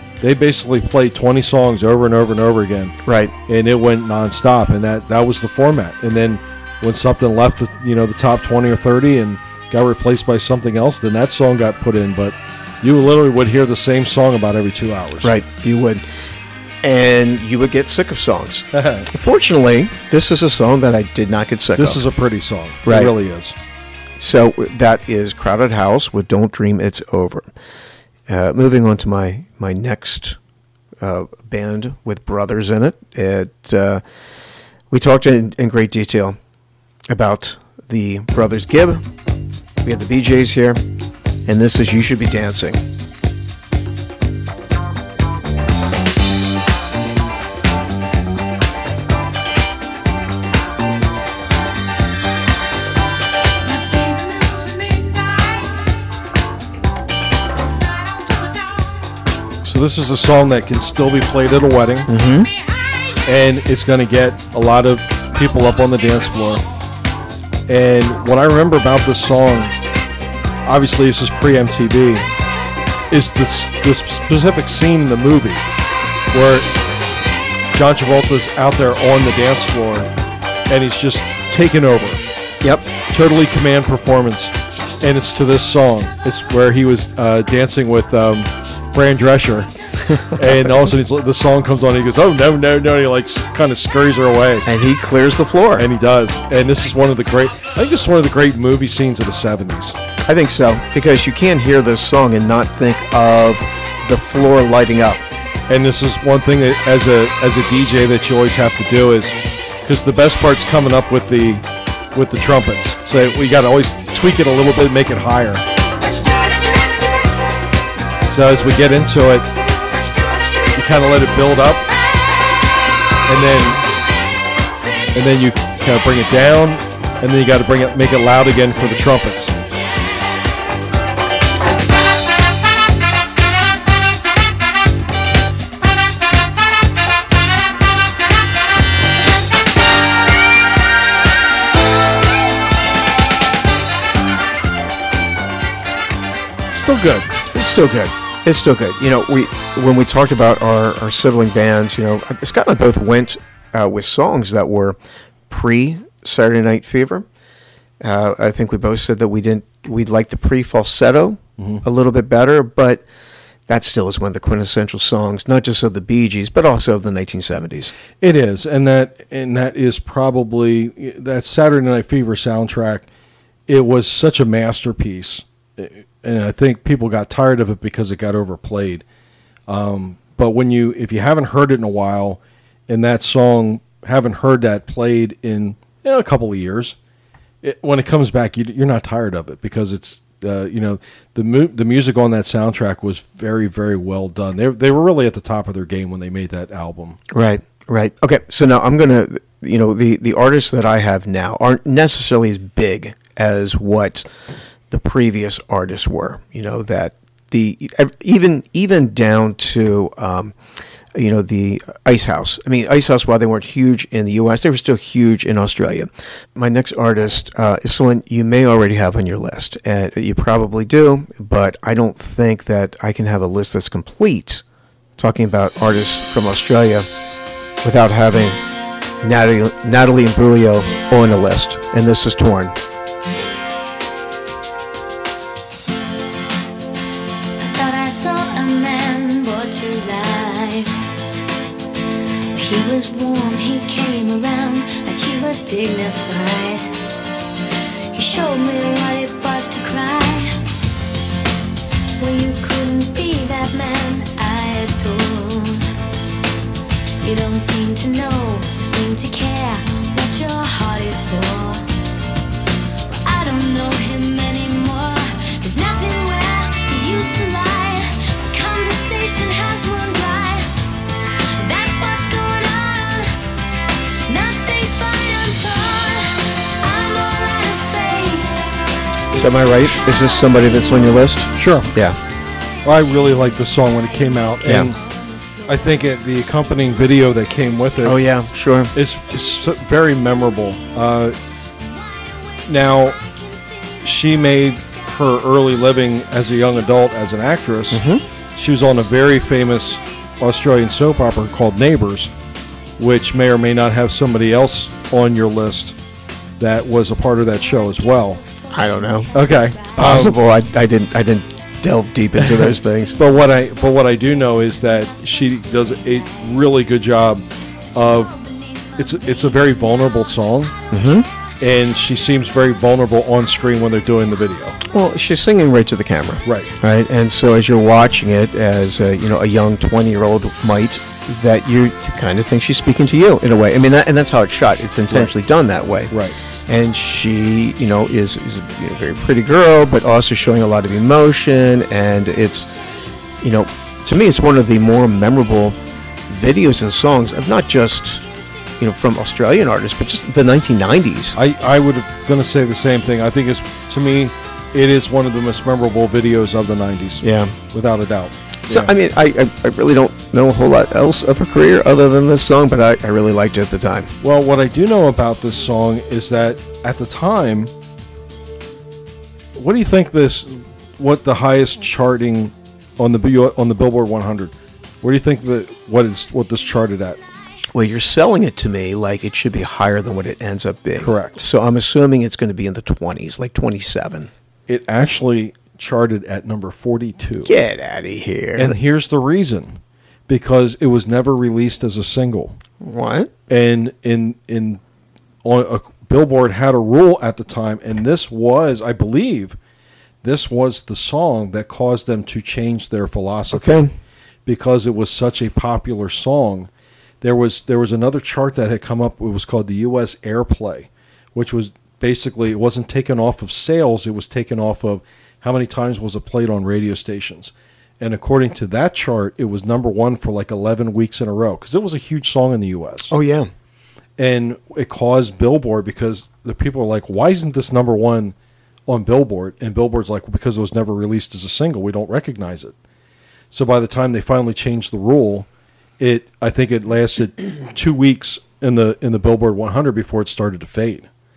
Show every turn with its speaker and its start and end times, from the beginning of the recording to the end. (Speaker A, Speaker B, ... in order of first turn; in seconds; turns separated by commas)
Speaker A: 0.2-3.0, Speaker B: 3.0-3.3, Speaker A: 3.5-15.3, Speaker B: 15.2-16.0, Speaker B: 16.8-22.0, Speaker A: 18.7-19.1, Speaker A: 21.8-23.6, Speaker B: 22.9-23.1, Speaker B: 24.2-27.5, Speaker B: 28.3-30.4, Speaker B: 31.0-34.0, Speaker B: 34.9-36.4, Speaker B: 37.1-39.0, Speaker B: 39.8-40.8, Speaker B: 41.5-42.8, Speaker A: 59.6-62.1, Speaker B: 62.1-62.5, Speaker A: 63.3-66.7, Speaker A: 67.7-69.7, Speaker A: 70.7-72.3, Speaker A: 73.1-75.6, Speaker A: 76.3-76.7, Speaker A: 77.7-80.1, Speaker A: 80.7-82.2, Speaker B: 82.6-82.9, Speaker A: 83.1-89.7, Speaker B: 90.0-90.7, Speaker A: 90.4-94.7, Speaker B: 94.7-95.9, Speaker A: 95.8-100.0, Speaker B: 100.3-105.2, Speaker A: 105.7-115.7, Speaker A: 118.2-119.5, Speaker A: 120.7-121.9, Speaker A: 123.3-123.8, Speaker A: 125.1-129.6, Speaker A: 146.7-147.3, Speaker B: 147.5-155.0, Speaker B: 155.5-157.3, Speaker B: 158.0-163.0, Speaker A: 161.6-161.8, Speaker B: 163.7-167.9, Speaker A: 168.2-173.1, Speaker A: 173.7-179.1, Speaker A: 179.7-187.0, Speaker A: 187.6-197.2, Speaker B: 197.3-204.3, Speaker B: 204.9-210.6, Speaker B: 211.1-224.6, Speaker B: 225.2-227.1, Speaker B: 227.8-228.6, Speaker B: 229.2-232.8, Speaker C: 237.6-241.1, Speaker C: 242.5-247.0, Speaker C: 248.1-250.6, Speaker C: 252.2-255.9, Speaker C: 257.2-261.9, Speaker C: 263.1-270.8, Speaker C: 271.4-278.7, Speaker B: 279.3-282.2, Speaker A: 281.6-281.9, Speaker A: 282.8-285.0, Speaker B: 284.6-284.9, Speaker A: 285.7-288.2, Speaker B: 288.0-288.9, Speaker A: 288.9-291.4, Speaker A: 292.7-293.2, Speaker A: 294.0-298.0, Speaker B: 297.9-298.2, Speaker A: 298.6-302.3, Speaker A: 303.0-306.0, Speaker A: 306.6-308.4, Speaker B: 308.7-309.3, Speaker A: 309.3-310.4, Speaker B: 309.9-313.2, Speaker A: 312.4-318.4, Speaker A: 319.0-320.7, Speaker B: 320.9-321.3, Speaker A: 321.6-324.8, Speaker B: 324.9-336.1, Speaker A: 326.4-326.7, Speaker A: 336.1-336.4, Speaker B: 336.7-342.8, Speaker B: 343.4-345.8, Speaker B: 346.3-348.2, Speaker B: 348.8-351.4, Speaker A: 351.4-358.9, Speaker B: 357.2-357.6, Speaker B: 358.6-364.1, Speaker A: 364.2-367.7, Speaker A: 369.6-377.2, Speaker B: 377.7-384.3, Speaker A: 381.0-381.4, Speaker A: 384.7-387.5, Speaker B: 387.4-388.8, Speaker A: 388.6-392.6, Speaker B: 392.8-393.3, Speaker A: 393.5-394.8, Speaker A: 395.4-399.6, Speaker A: 400.2-403.8, Speaker B: 403.5-403.9, Speaker A: 404.5-406.7, Speaker A: 407.2-423.1, Speaker B: 423.1-423.5, Speaker A: 424.2-428.4, Speaker A: 428.9-432.8, Speaker A: 433.5-435.5, Speaker A: 436.0-441.1